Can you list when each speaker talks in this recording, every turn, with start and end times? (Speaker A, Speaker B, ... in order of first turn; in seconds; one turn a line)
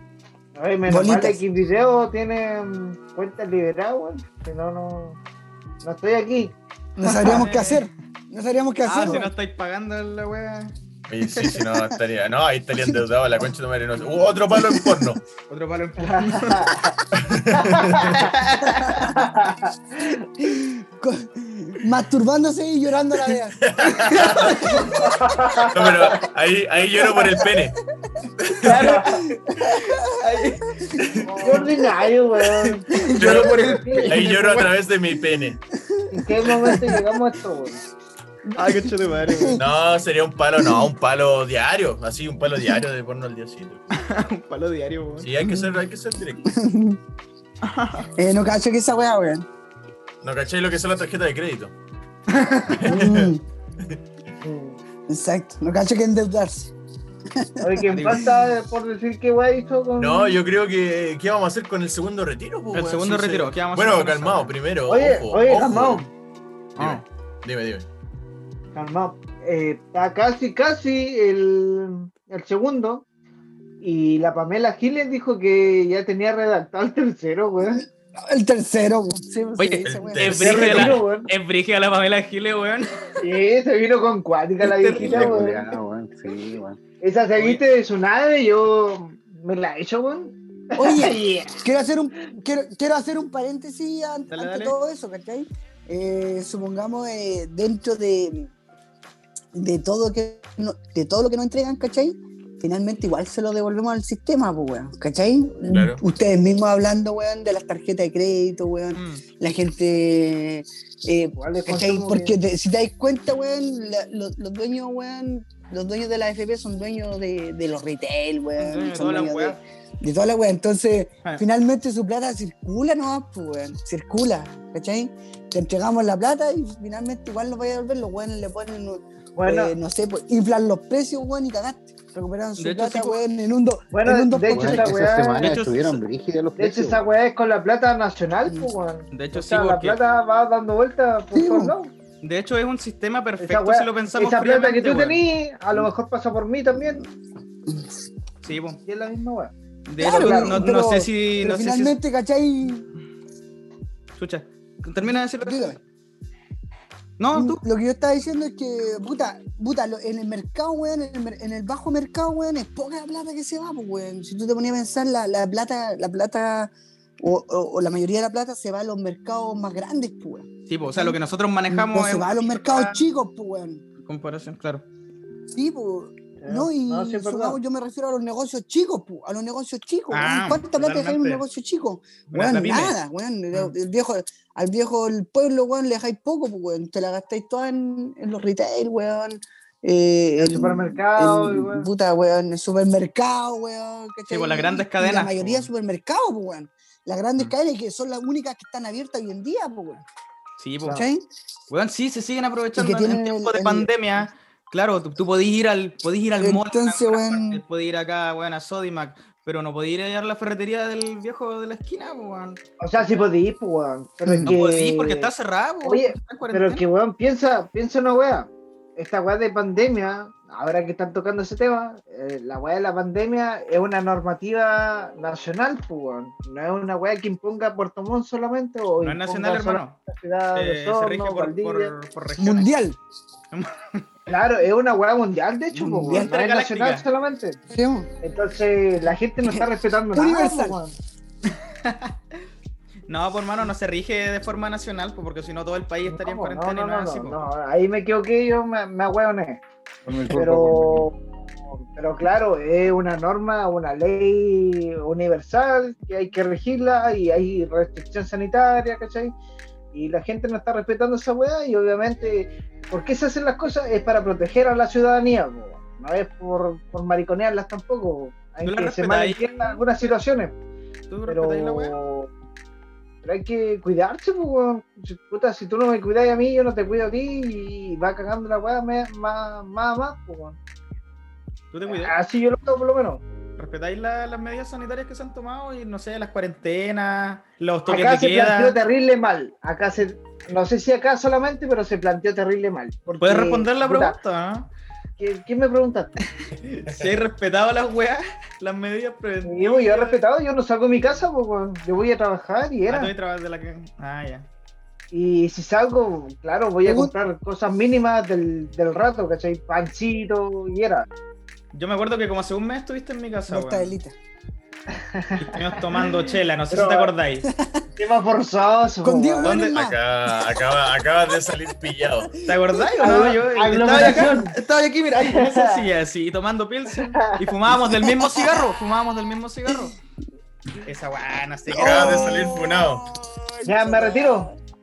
Speaker A: 0.6-5.2
Speaker B: 0.9-1.4
Speaker A: 5.8-6.5
Speaker B: 7.0-9.3
Speaker C: 7.0-7.9
Speaker C: 8.9-10.7
Speaker D: 11.1-15.2
Speaker B: 12.7-13.1
Speaker B: 14.6-15.1
Speaker C: 15.5-16.9
Speaker A: 16.0-16.9
Speaker D: 17.1-18.2
Speaker C: 18.2-19.1
Speaker B: 18.9-19.1
Speaker A: 19.1-20.2
Speaker B: 20.4-23.6
Speaker D: 23.6-24.9
Speaker C: 24.0-24.8
Speaker B: 24.7-25.1
Speaker A: 25.0-26.2
Speaker D: 25.7-27.8
Speaker D: 28.4-29.1
Speaker A: 28.6-29.2
Speaker B: 29.6-30.3
Speaker C: 29.7-30.7
Speaker B: 30.9-31.8
Speaker C: 31.3-31.7
Speaker A: 31.3-34.5
Speaker B: 32.9-34.1
Speaker D: 33.1-35.6
Speaker C: 34.1-34.7
Speaker B: 35.8-37.0
Speaker A: 36.1-37.8
Speaker B: 38.5-39.6
Speaker C: 38.5-39.6
Speaker D: 39.5-43.8
Speaker B: 40.6-40.9
Speaker C: 44.0-45.3
Speaker D: 45.2-46.4
Speaker B: 45.4-45.7
Speaker B: 46.4-47.0
Speaker C: 47.6-48.1
Speaker B: 48.2-49.5
Speaker D: 50.2-51.7
Speaker C: 52.4-52.8
Speaker D: 52.8-53.4
Speaker B: 52.8-53.4
Speaker A: 54.4-54.8
Speaker B: 55.1-56.7
Speaker B: 57.4-58.0
Speaker A: 57.6-60.4
Speaker C: 57.9-58.4
Speaker D: 60.0-66.1
Speaker C: 62.7-64.5
Speaker A: 64.9-66.1
Speaker C: 66.8-67.0
Speaker D: 66.8-67.9
Speaker A: 68.7-73.0
Speaker A: 73.8-77.9
Speaker B: 78.2-80.6
Speaker C: 79.6-83.1
Speaker D: 79.8-81.0
Speaker A: 80.4-81.3
Speaker A: 83.2-85.8
Speaker C: 84.6-85.3
Speaker E: 84.9-86.8
Speaker A: 87.0-91.6
Speaker C: 87.4-87.6
Speaker B: 90.8-98.5
Speaker C: 94.3-94.8
Speaker B: 99.5-135.0
Speaker D: 105.7-106.0
Speaker C: 109.0-109.2
Speaker A: 111.4-112.3
Speaker C: 118.6-119.6
Speaker A: 129.4-129.7
Speaker C: 132.6-133.2
Speaker A: 133.9-135.6
Speaker E: 134.5-137.1
Speaker C: 135.4-136.0
Speaker A: 136.6-141.9
Speaker C: 139.1-140.0
Speaker B: 141.3-141.8
Speaker C: 142.2-145.2
Speaker A: 143.4-147.1
Speaker B: 147.7-147.9
Speaker C: 148.4-148.8
Speaker A: 148.9-150.8
Speaker C: 149.9-152.0
Speaker B: 150.0-152.9
Speaker C: 154.2-155.8
Speaker B: 155.1-155.8
Speaker C: 157.2-157.6
Speaker B: 157.3-171.2
Speaker C: 170.7-173.0
Speaker B: 171.7-173.8
Speaker C: 174.1-174.8
Speaker B: 175.5-200.1
Speaker A: 176.4-177.6
Speaker C: 180.1-181.4
Speaker C: 182.3-183.0
Speaker A: 190.4-191.9
Speaker C: 194.3-195.7
Speaker C: 200.6-201.1
Speaker B: 200.8-201.3
Speaker C: 201.7-212.6
Speaker B: 202.8-203.9
Speaker B: 206.4-207.6
Speaker A: 212.8-215.3
Speaker B: 214.2-214.6
Speaker C: 214.4-216.8
Speaker A: 215.8-231.9
Speaker C: 229.0-230.0
Speaker C: 230.6-232.7
Speaker B: 232.4-233.0
Speaker C: 233.5-234.1
Speaker A: 234.3-237.6
Speaker B: 235.8-236.3
Speaker C: 236.0-237.1
Speaker B: 237.7-238.1
Speaker A: 238.2-240.9
Speaker B: 239.4-240.8
Speaker C: 241.5-242.1
Speaker C: 243.1-247.5
Speaker A: 246.1-249.6
Speaker E: 250.1-251.1
Speaker A: 250.3-251.2
Speaker A: 251.9-259.3
Speaker A: 259.9-270.5
Speaker C: 268.6-269.9
Speaker C: 271.1-271.9
Speaker A: 271.3-272.3
Speaker A: 273.2-280.6
Speaker C: 281.7-282.2
Speaker A: 281.9-283.2
Speaker C: 283.6-288.8
Speaker A: 287.9-294.2
Speaker C: 293.2-294.7
Speaker A: 295.2-296.2
Speaker C: 296.6-300.2
Speaker A: 299.4-303.1
Speaker C: 302.9-304.5
Speaker A: 305.1-311.1
Speaker B: 306.8-307.1
Speaker C: 311.7-313.9
Speaker B: 313.5-314.1
Speaker A: 314.9-315.7
Speaker C: 315.4-317.5
Speaker A: 316.7-317.1
Speaker B: 317.4-317.8
Speaker A: 318.0-319.5
Speaker B: 319.0-320.5
Speaker C: 319.4-319.8
Speaker D: 319.6-322.4
Speaker C: 322.5-329.9
Speaker B: 322.5-323.0
Speaker A: 323.0-324.5
Speaker A: 325.2-325.9
Speaker C: 330.9-332.5
Speaker D: 331.7-333.0
Speaker B: 331.7-334.6
Speaker A: 333.7-334.5